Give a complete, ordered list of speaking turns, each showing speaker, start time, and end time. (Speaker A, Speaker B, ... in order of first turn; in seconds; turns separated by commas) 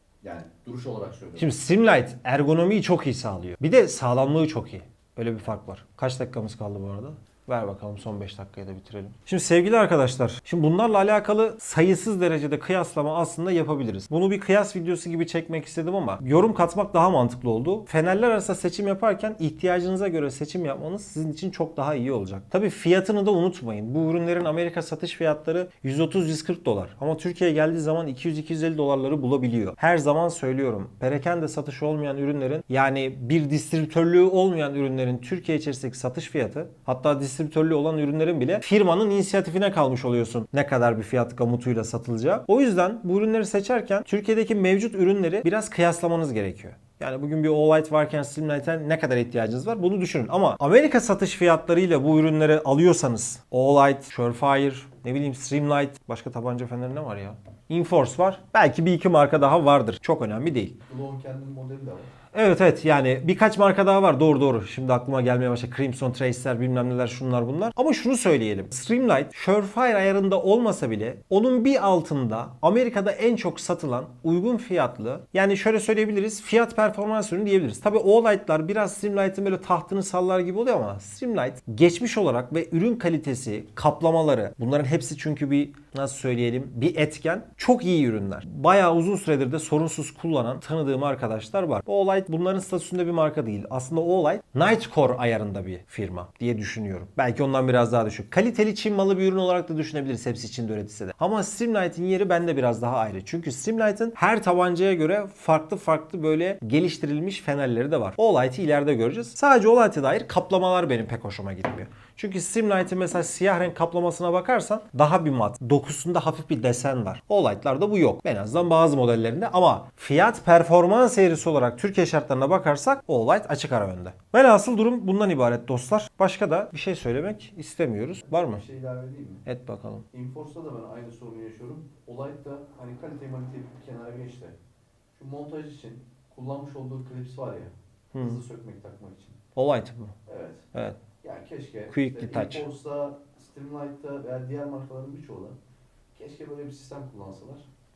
Speaker A: 0.2-1.5, Speaker B: 1.4-60.8, Speaker A: 60.9-62.1, Speaker B: 62.3-128.6, Speaker A: 128.3-129.4, Speaker B: 129.4-130.1, Speaker A: 130.1-134.5, Speaker A: 135.1-139.4, Speaker B: 138.1-138.4, Speaker B: 139.6-140.1, Speaker A: 140.3-140.6, Speaker A: 141.2-145.6, Speaker B: 141.9-142.7, Speaker A: 146.1-147.7